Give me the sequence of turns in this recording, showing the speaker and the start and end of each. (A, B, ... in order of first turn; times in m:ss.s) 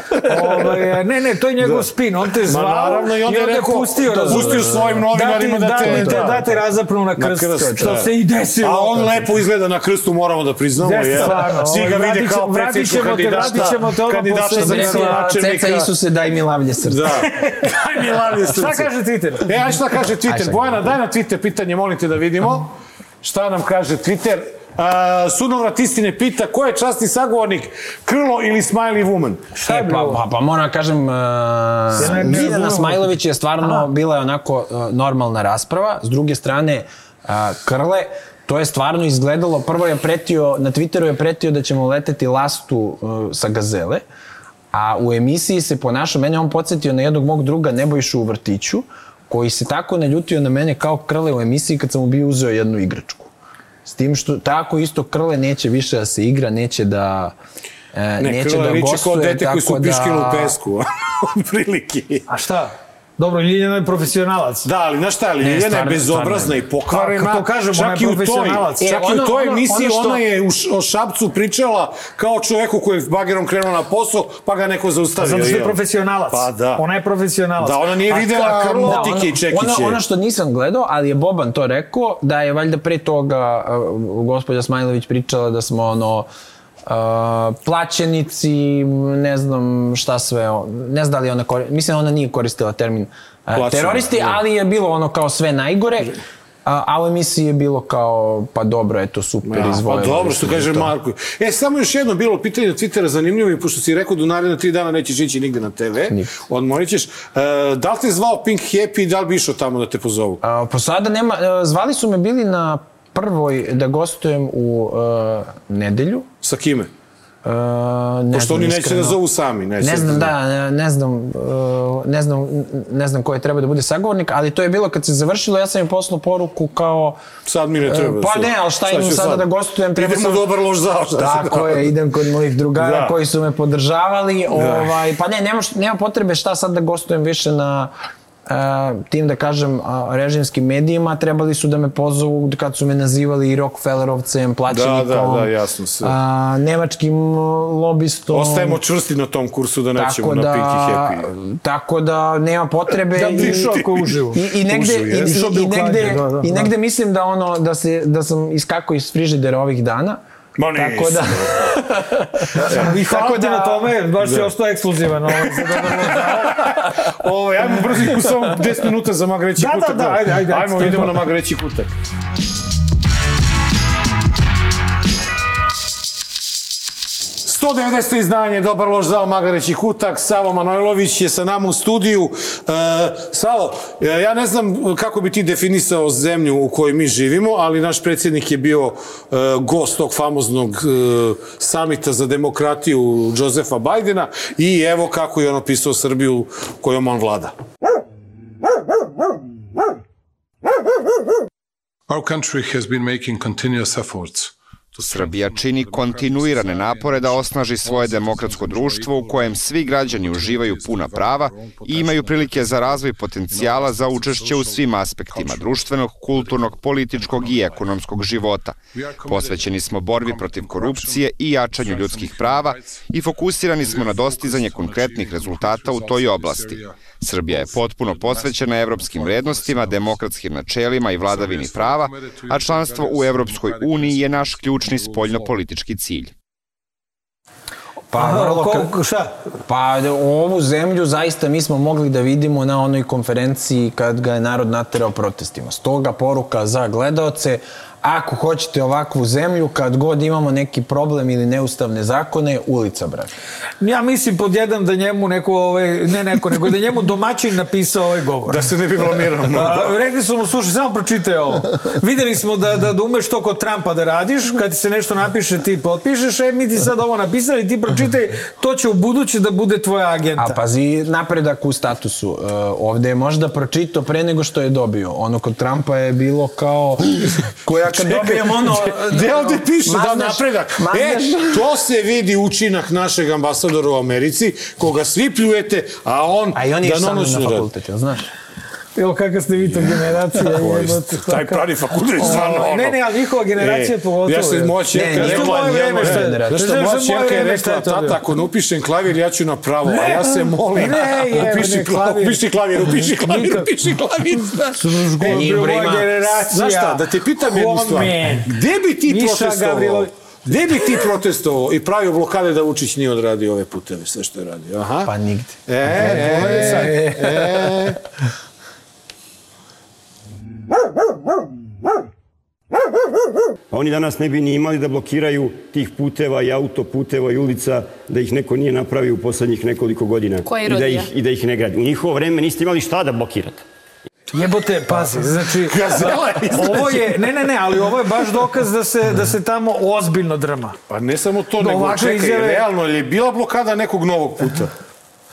0:00.2-0:09.2 A
0:01.6-0:06.5 B
0:04.0-0:05.1 C
0:05.8-0:06.6 C
0:07.2-0:08.1 B
0:07.6-0:08.0 C
0:08.6-0:15.9 B
0:10.8-0:15.3 A
0:11.2-0:11.6 C
0:13.4-0:13.7 C
0:14.5-0:17.2 C
0:16.8-0:29.5 B
0:17.3-0:19.5 A
0:20.3-0:20.9 C
0:29.6-0:30.2 A
0:29.7-0:44.0 C
0:32.0-0:33.1 A
0:32.0-0:32.6 B
0:44.7-0:53.3 C
0:53.8-0:57.4 C
0:57.9-1:00.6 C
0:58.2-1:02.3 B
1:02.3-1:04.7 A
1:04.6-1:15.8 B
1:05.4-1:06.6 C
1:06.9-1:09.1 A
1:08.8-1:10.2 C
1:15.2-1:19.2 A
1:16.3-1:16.8 B
1:17.6-1:20.0 B
1:18.8-1:26.3 C
1:26.9-1:36.1 C
1:33.5-1:34.4 B
1:36.6-1:40.9 C
1:39.5-1:50.4 B
1:46.1-1:46.3 C
1:50.4-1:56.3 C
1:56.4-1:56.9 B
1:57.4-1:59.2 C
1:58.3-2:00.3 B
1:59.8-2:07.2 C
2:07.4-2:11.9 B
2:07.8-2:10.5 C
2:11.2-2:18.0 C
2:12.8-2:13.2 B
2:14.5-2:15.0 B
2:18.5-2:25.5 C
2:24.7-2:26.2 B
2:26.0-2:28.8 C
2:28.3-2:31.3 B
2:30.0-2:33.8 C
2:33.1-2:34.5 A
2:33.2-2:34.1 B
2:34.4-2:40.2 C
2:34.6-2:35.5 B
2:35.1-2:36.7 A
2:40.6-2:41.7 B
2:40.8-2:43.9 C
2:42.6-2:42.9 B
2:42.6-2:46.6 A
2:44.2-2:44.5 B
2:45.3-2:51.9 B
2:49.6-2:51.1 A
2:57.4-3:17.6 B
3:22.1-3:38.0 D
3:25.0-3:56.3 E
3:38.9-3:43.1 D
3:43.6-3:50.2 D
3:51.1-3:55.6 D
3:58.1-3:58.9 C
3:58.1-3:59.3 A
3:59.7-4:13.3 C
4:13.8-4:18.6 A
4:18.5-4:19.9 B
4:19.5-4:30.6 A
4:30.4-4:41.6 C
4:37.9-4:47.7 B
4:46.6-4:48.3 C
4:49.0-4:51.6 A
4:50.0-4:53.0 B
4:52.2-4:58.2 A
4:53.6-5:05.7 B
4:54.9-4:56.6 C
4:59.8-5:02.4 A
5:03.1-5:03.7 A
5:04.7-5:08.5 A
5:05.2-5:06.2 C
5:06.3-5:15.1 B
5:09.1-5:10.1 A
5:15.0-5:17.9 C
5:15.7-5:18.0 B
5:23.7-5:33.6 F
5:34.3-5:40.8 A
5:35.5-5:37.1 B
5:40.9-5:44.7 B
5:41.6-5:42.6 A